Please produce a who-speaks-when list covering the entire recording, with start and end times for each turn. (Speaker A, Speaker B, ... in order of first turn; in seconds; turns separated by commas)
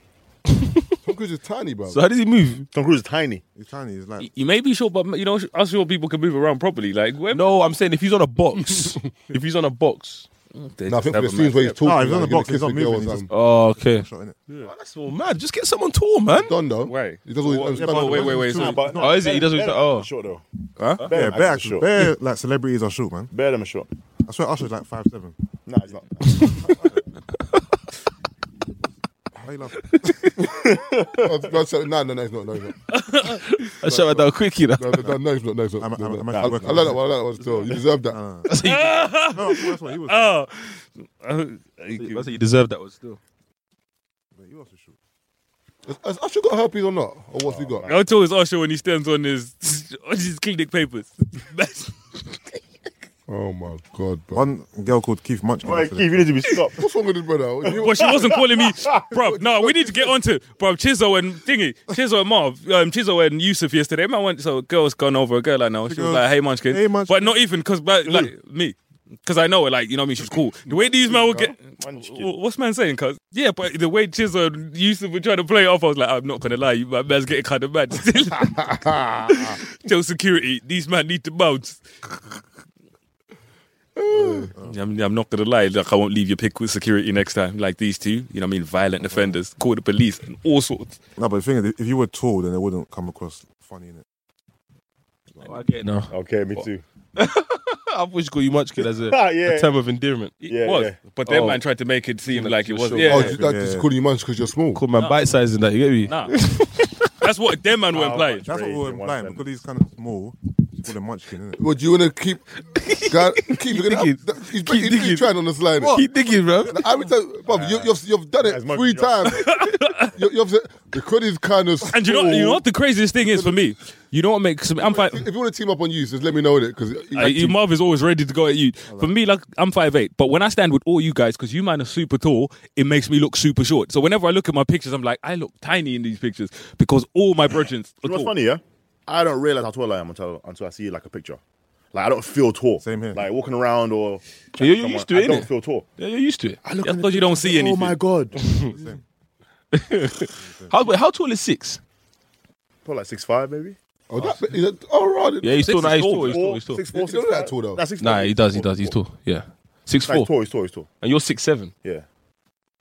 Speaker A: 0.5-0.8, Speaker B: 1.0-2.0, Speaker A: 1.9-2.7, Speaker C: 2.7-3.4, Speaker D: 3.5-4.3, Speaker E: 4.2-7.5, Speaker A: 7.3-10.3, Speaker E: 10.6-11.8, Speaker B: 10.9-13.3, Speaker D: 11.8-14.4, Speaker A: 13.3-14.1, Speaker A: 14.6-16.5, Speaker B: 16.4-18.7, Speaker E: 16.9-19.0, Speaker D: 17.7-18.8, Speaker C: 18.4-20.4, Speaker A: 19.0-20.1, Speaker E: 20.8-21.1, Speaker C: 21.0-21.9, Speaker D: 21.1-23.3, Speaker C: 23.3-23.9, Speaker D: 24.2-25.4, Speaker C: 25.7-26.8, Speaker D: 29.4-30.3, Speaker C: 30.4-31.3, Speaker B: 31.2-32.8, Speaker E: 32.9-33.4, Speaker A: 33.2-35.1, Speaker B: 33.8-38.2, Speaker D: 35.8-37.1, Speaker C: 36.3-37.0, Speaker D: 38.0-38.5, Speaker A: 38.5-39.1, Speaker E: 38.6-42.3, Speaker D: 39.3-40.3, Speaker A: 42.0-43.2, Speaker D: 44.4-45.0, Speaker B: 45.9-47.9, Speaker C: 47.4-48.1, Speaker E: 47.9-52.6, Speaker B: 53.3-54.5, Speaker D: 54.3-56.2, Speaker C: 55.6-56.8, Speaker B: 56.8-58.1, Speaker C: 57.7-59.1, Speaker E: 57.7-81.8, Speaker B: 59.1-60.1, Speaker D: 65.9-67.4, Speaker C: 68.0-68.3, Speaker C: 70.7-72.3, Speaker B: 78.4-79.5, Speaker B: 84.0-84.5, Speaker D: 84.1-84.8, Speaker E: 84.6-91.0, Speaker D: 89.1-89.4, Speaker D: 91.2-94.0, Speaker A: 95.4-96.7, Speaker C: 96.1-96.8, Speaker A: 97.2-100.3, Speaker C: 99.0-99.8, Speaker E: 100.4-103.4, Speaker C: 100.5-101.0, Speaker A: 101.3-101.6, Speaker A: 102.3-103.4, Speaker B: 103.1-104.8, Speaker D: 103.4-103.9, Speaker A: 104.7-107.1, Speaker E: 105.0-105.2, Speaker E: 106.1-106.5, Speaker E: 107.2-108.5, Speaker C: 107.9-109.4, Speaker D: 108.5-111.6, Speaker B: 111.6-116.1, Speaker A: 112.8-115.3, Speaker D: 115.8-116.1, Speaker A: 115.9-116.8, Speaker B: 116.7-119.6, Speaker C: 117.5-119.6, Speaker E: 119.3-120.1, Speaker B: 120.2-122.7, Speaker E: 121.9-125.3, Speaker B: 123.3-123.6, Speaker B: 124.8-127.6, Speaker E: 127.2-138.3, Speaker C: 138.0-141.4, Speaker C: 141.9-145.9, Speaker D: 142.8-143.2, Speaker A: 144.6-146.6, Speaker C: 146.7-148.7, Speaker E: 146.8-148.0, Speaker D: 148.5-149.0, Speaker A: 149.7-151.8, Speaker D: 150.4-150.9, Speaker C: 152.8-154.4, Speaker B: 154.1-155.7, Speaker A: 155.4-156.8, Speaker E: 155.7-156.6, Speaker C: 155.9-159.0, Speaker B: 156.9-157.8, Speaker A: 158.0-161.7, Speaker C: 160.1-160.9